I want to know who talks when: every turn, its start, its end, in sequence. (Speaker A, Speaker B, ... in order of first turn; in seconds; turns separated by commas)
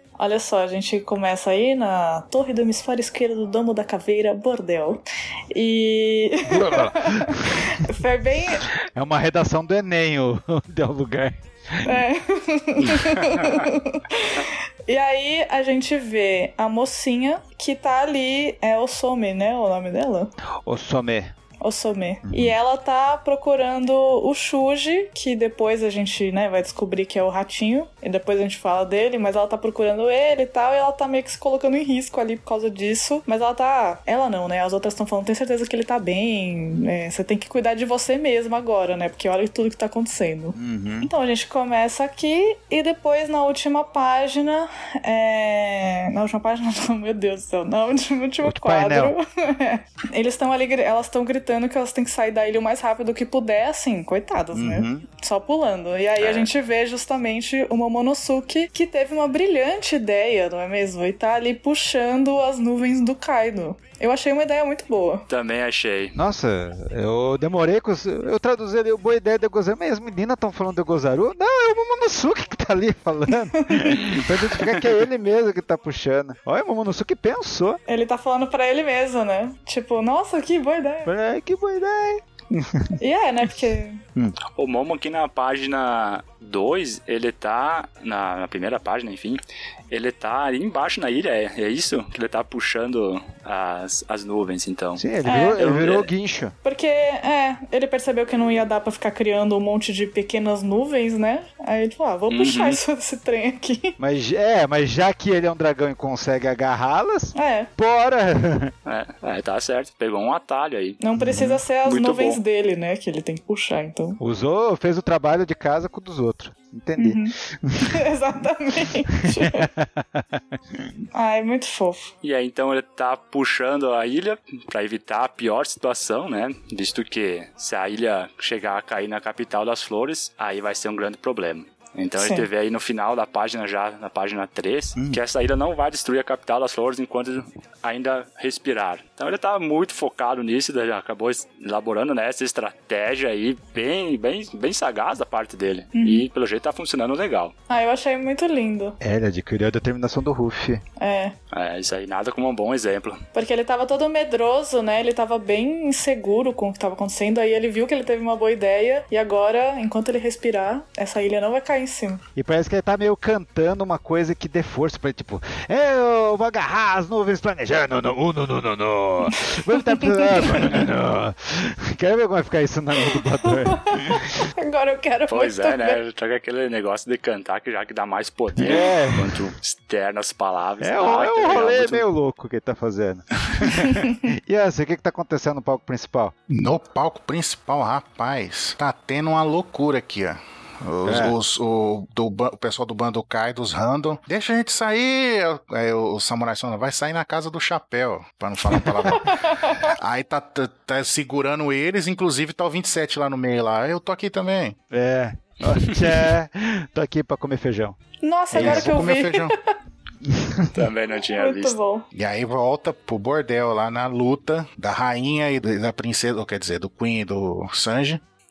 Speaker A: 0.2-8.7, Speaker B: 6.5-7.7, Speaker B: 8.6-12.0, Speaker A: 11.8-20.3, Speaker C: 13.0-13.5, Speaker B: 20.6-21.3, Speaker A: 21.6-65.2, Speaker B: 22.3-22.5, Speaker B: 40.5-41.1, Speaker B: 48.4-49.2, Speaker B: 54.5-55.0, Speaker C: 56.2-56.5, Speaker C: 65.3-66.2, Speaker B: 66.2-77.8, Speaker A: 73.6-74.0, Speaker A: 77.9-81.1, Speaker B: 81.0-83.0, Speaker A: 83.0-84.0, Speaker C: 84.5-89.4, Speaker C: 89.9-95.0, Speaker B: 95.0-96.5, Speaker A: 95.2-95.6, Speaker C: 95.6-96.1, Speaker A: 96.6-104.0, Speaker C: 102.3-102.8, Speaker B: 104.0-108.7, Speaker A: 107.3-107.7, Speaker C: 108.8-111.0, Speaker A: 111.0-114.2, Speaker B: 111.2-111.6, Speaker C: 111.8-112.4, Speaker B: 114.2-118.0, Speaker A: 117.0-119.7, Speaker B: 119.3-120.9, Speaker A: 121.1-122.1, Speaker C: 122.2-147.5, Speaker A: 132.2-132.5, Speaker A: 145.9-146.2, Speaker A: 147.7-149.0, Speaker B: 149.0-150.8, Speaker A: 151.0-151.3, Speaker C: 151.5-153.2, Speaker A: 153.3-162.2, Speaker B: 162.3-174.4, Speaker A: 169.4-170.7, Speaker A: 173.4-176.0, Speaker C: 175.3-182.1, Speaker B: 178.6-179.4, Speaker B: 180.8-186.3, Speaker D: 186.5-204.8, Speaker B: 191.0-191.3, Speaker B: 198.8-199.1, Speaker A: 199.1-199.9, Speaker B: 204.9-207.9, Speaker A: 208.2-209.7, Speaker B: 208.5-209.0, Speaker D: 208.5-209.5, Speaker B: 210.2-210.7, Speaker C: 210.7-211.8, Speaker A: 211.3-212.0, Speaker D: 212.1-218.2